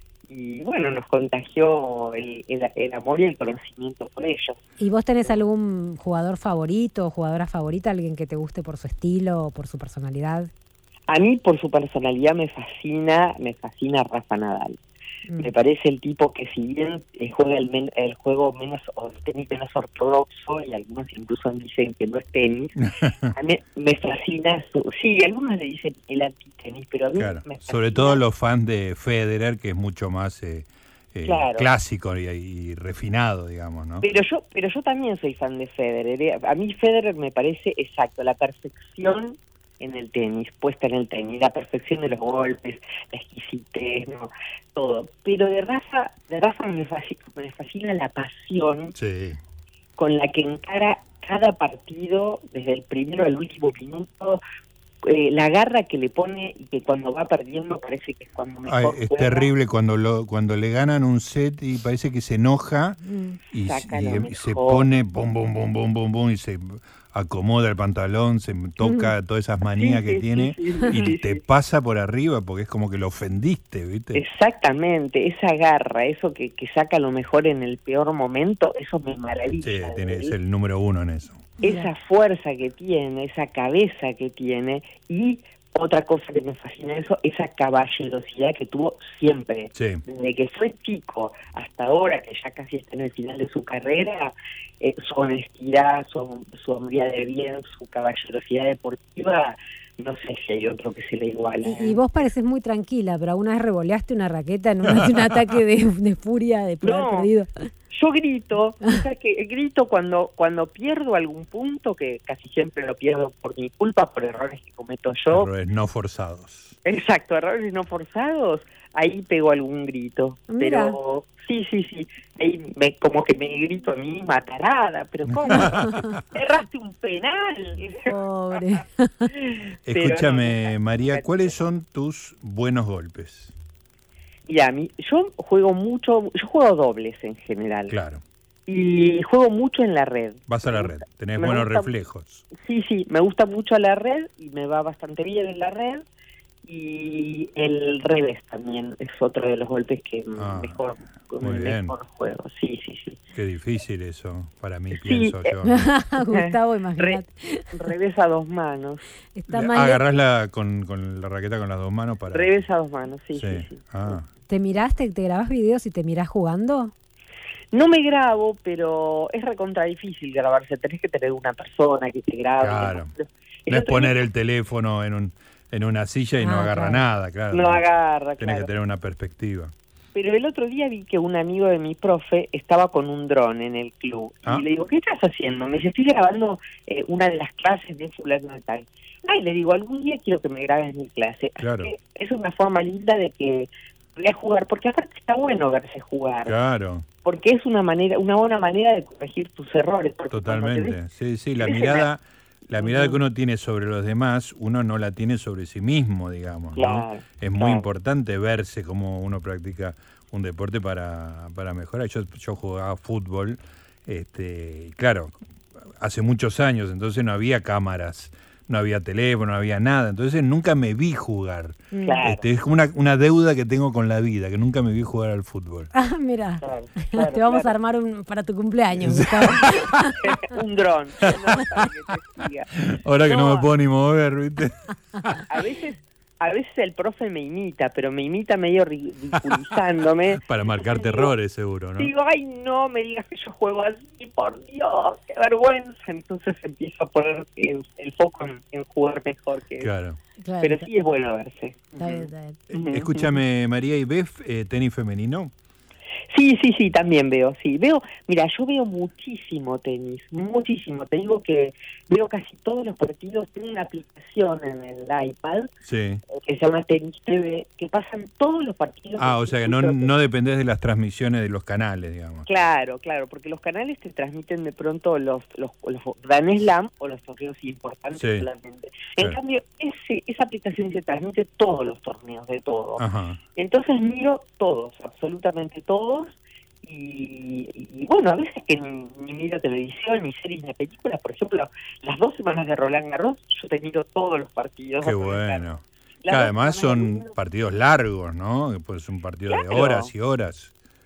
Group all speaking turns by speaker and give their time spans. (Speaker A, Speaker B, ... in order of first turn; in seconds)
Speaker A: 0.3-4.6, 11.1-14.8, 15.4-28.2, 31.2-31.7, 34.0-48.9, 50.0-54.4, 55.0-59.5, 63.6-64.8, 69.8-71.4, 74.1-80.3, 81.6-102.0, 106.8-107.3, 107.9-115.5, 116.8-128.1, 129.3-131.5, 134.4-137.9, 138.7-141.9, 142.5-146.1, 146.6-153.2, 154.9-155.5, 156.2-157.2, 157.7-159.0, 162.3-164.1, 167.7-174.2, 177.5-178.7, 180.1-196.5, 197.2-201.0, 201.6-202.1, 202.8-203.2, 206.8-207.9, 222.0-222.4, 226.6-227.7, 230.2-232.7, 233.2-233.7, 235.5-241.3, 242.0-249.9, 250.6-253.1, 256.3-265.7, 266.3-270.1, 272.4-283.0, 283.6-295.6, 296.2-297.3, 299.5-300.1
Speaker B: 4.8-10.5, 63.0-63.4, 68.8-69.1, 81.6-81.9, 101.6-107.5, 120.5-121.0, 128.1-129.3, 155.6-157.8, 159.3-160.0, 164.5-166.9, 176.4-177.0, 221.9-222.2, 225.9-230.3, 250.4-250.9, 252.0-252.6
Speaker C: 22.8-23.3, 27.2-34.0, 48.9-49.4, 58.7-74.2, 79.6-81.5, 89.7-90.0, 115.3-116.8, 125.5-126.2, 129.8-133.5, 137.9-138.2, 140.5-142.4, 150.4-150.8, 151.4-151.9, 153.3-155.9, 159.5-162.6, 163.3-164.3, 172.6-173.1, 173.7-177.8, 178.4-179.7, 191.6-191.9, 196.4-197.1, 200.3-215.3, 215.9-225.9, 229.0-229.9, 232.8-235.4, 240.4-242.1, 249.8-250.2, 252.7-255.5, 265.8-266.2, 269.2-272.4, 278.1-278.5, 283.0-283.4, 295.0-300.7